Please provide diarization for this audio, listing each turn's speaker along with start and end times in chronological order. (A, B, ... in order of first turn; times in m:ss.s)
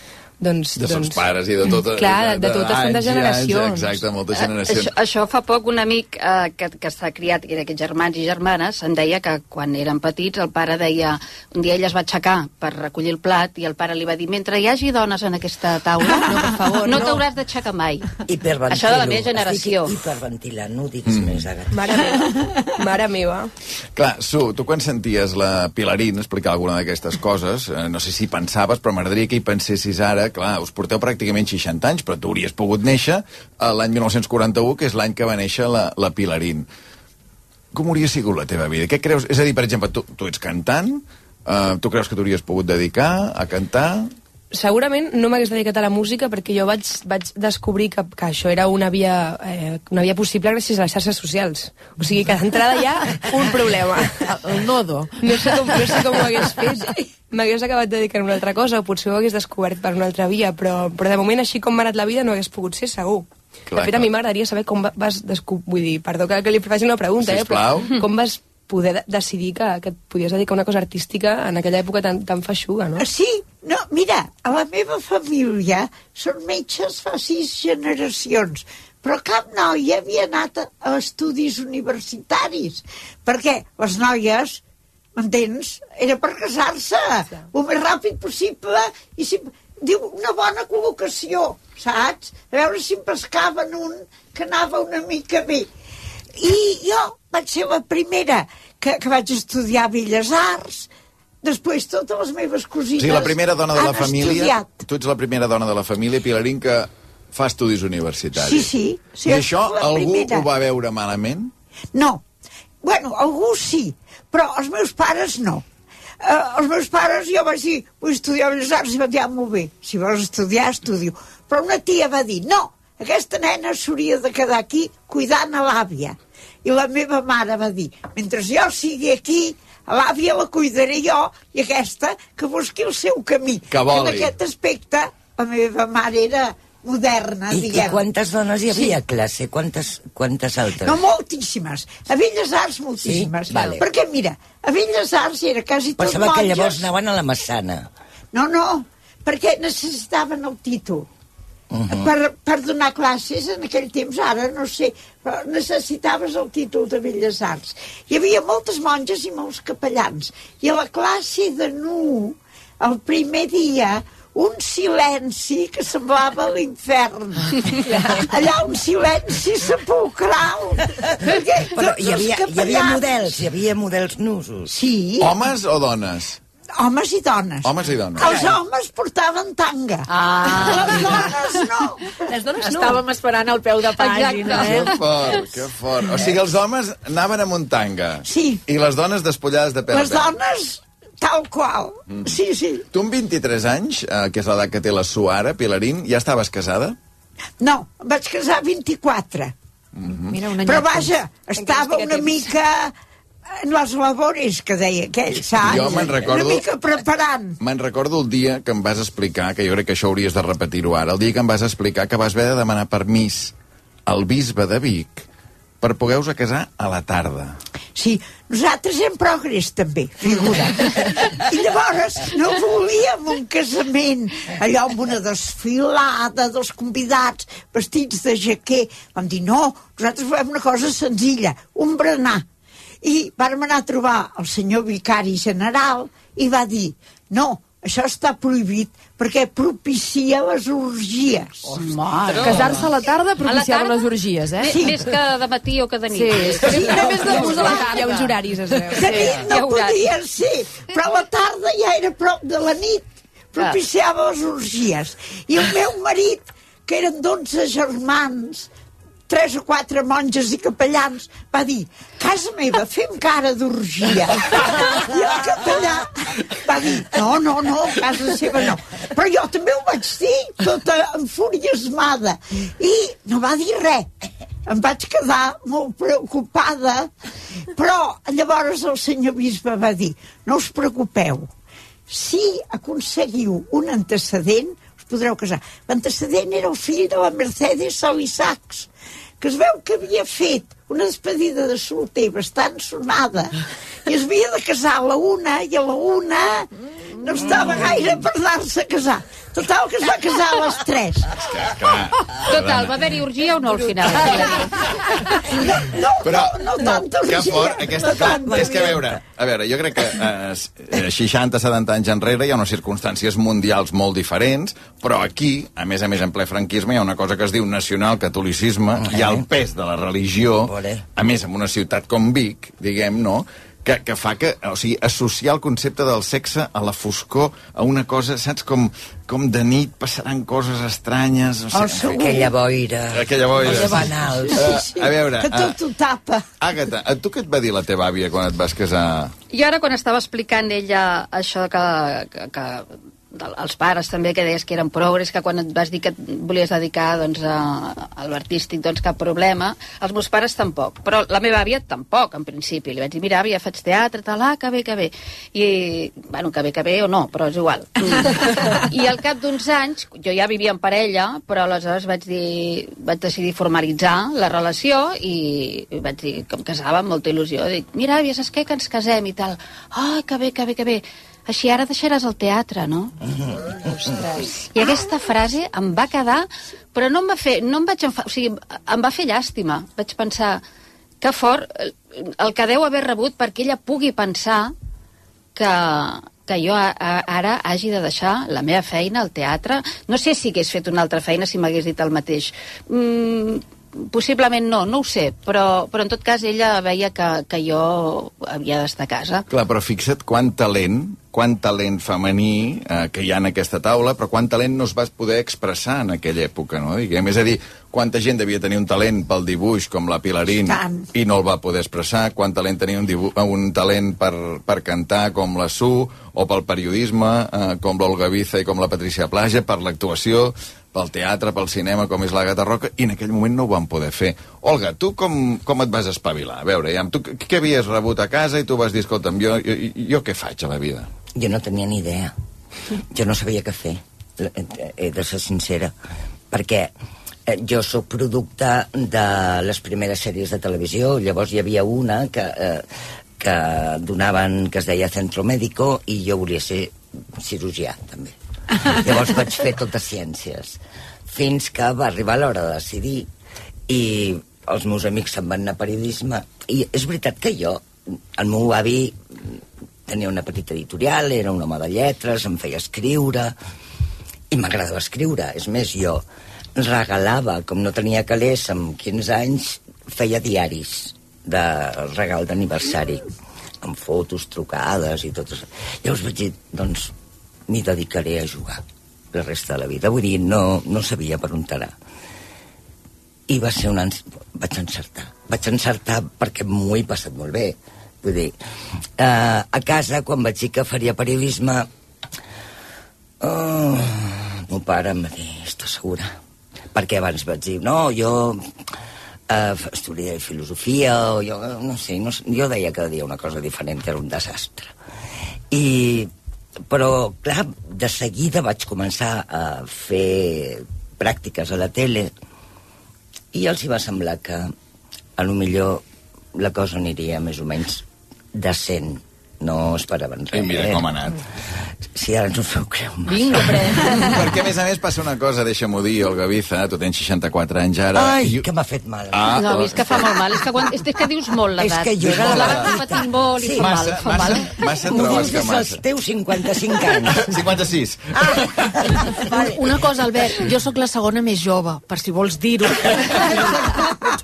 0:00.4-0:01.2 A
0:00.8-0:04.9 B
0:01.9-0:04.0 A
0:04.4-0:18.1 C
0:16.2-0:17.2 A
0:18.3-0:22.0 D
0:18.7-0:19.9 C
0:21.0-0:21.5 B
0:21.7-0:23.5 A
0:24.0-0:36.7 B
0:37.7-0:44.1 B
0:44.5-0:54.3 A
0:54.2-0:56.0 E
0:55.2-1:13.1 A
1:03.7-1:04.1 B
1:07.2-1:07.9 B
1:13.0-1:24.6 F
1:25.2-1:35.7 F
1:36.3-1:40.9 F
1:41.4-1:44.8 F
1:43.0-1:48.7 B
1:48.3-1:50.5 F
1:49.2-1:51.5 B
1:51.9-1:52.2 F
1:52.8-1:55.6 F
1:56.2-2:18.0 F
2:13.7-2:14.3 B
2:17.5-2:21.0 D
2:18.7-2:19.0 F
2:20.8-2:26.9 F
2:23.0-2:23.8 D
2:26.0-2:27.9 D
2:28.3-2:31.1 F
2:31.7-2:32.1 D
2:31.9-2:53.2 F
2:51.7-2:54.7 D
2:54.7-2:55.3 F
2:55.2-2:56.4 B
2:56.8-3:02.2 F
2:57.6-2:58.4 B
3:00.2-3:01.6 C
3:02.6-3:05.0 G
3:04.0-3:04.9 C
3:04.5-3:10.3 B
3:08.2-3:08.6 F
3:09.9-3:12.8 F
3:12.9-3:17.0 B
3:17.6-3:19.5 F
3:19.9-3:20.4 B
3:20.3-3:21.1 E
3:20.6-3:22.9 F
3:21.6-3:22.5 A
3:23.5-3:27.6 F
3:25.5-3:26.6 B
3:27.6-3:33.5 B
3:34.1-3:35.2 B
3:35.8-3:37.6 B
3:37.9-3:52.4 F
3:53.0-4:01.7 F
4:01.8-4:02.9 C
4:02.2-4:04.9 E
4:03.4-4:04.1 C
4:04.6-4:08.0 C
4:04.6-4:04.9 F
4:06.1-4:09.8 E
4:06.6-4:09.3 A
4:06.6-4:07.3 F
4:09.0-4:18.7 F
4:19.3-4:34.1 F
4:34.7-4:37.1 F
4:37.7-4:41.5 F
4:42.1-4:48.9 F
4:49.4-5:01.3 F
4:57.3-4:58.0 D
5:01.4-5:02.9 B
5:02.4-5:04.9 C
5:05.3-5:09.0 F
5:06.2-5:06.6 B
5:07.2-5:32.4 B
5:08.6-5:09.1 D
5:19.0-5:19.4 D
5:20.6-5:21.1 D
5:31.7-5:32.5 F
5:31.7-5:34.9 D
5:33.1-5:35.8 B
5:33.6-5:33.9 F
5:34.6-5:36.4 F
5:36.6-5:39.3 B
5:39.5-6:13.2 C
6:13.2-6:14.3 D
6:14.1-6:20.6 C
6:21.2-6:24.7 C
6:25.5-6:39.4 C
6:39.5-7:11.1 B
6:50.6-6:51.1 F
7:11.4-7:12.3 D
7:13.0-7:15.9 D
7:16.5-7:16.9 D
7:17.5-7:22.8 D
7:23.4-7:33.3 D
7:33.9-7:43.5 D
7:44.5-7:46.2 D
7:46.8-7:53.2 D
7:53.8-7:57.1 D
7:57.7-8:01.9 D
8:03.5-8:08.6 D
8:09.2-8:11.9 D
8:13.4-8:16.3 D
8:16.9-8:18.6 D
8:19.5-8:24.9 D
8:25.7-8:26.3 D
8:26.9-8:32.3 D
8:33.5-8:34.7 D
8:35.4-8:36.0 D
8:36.5-8:41.1 D
8:40.5-8:41.4 B
8:42.1-8:44.5 D
8:43.3-8:44.5 G
8:44.1-8:48.6 B
8:48.1-8:50.3 D
8:49.3-8:50.3 B
8:49.6-8:55.4 C
8:51.8-8:57.7 D
8:52.2-8:53.0 B
8:53.8-8:56.0 B
8:57.2-8:59.1 B
8:58.4-8:59.8 D
8:59.4-9:04.1 G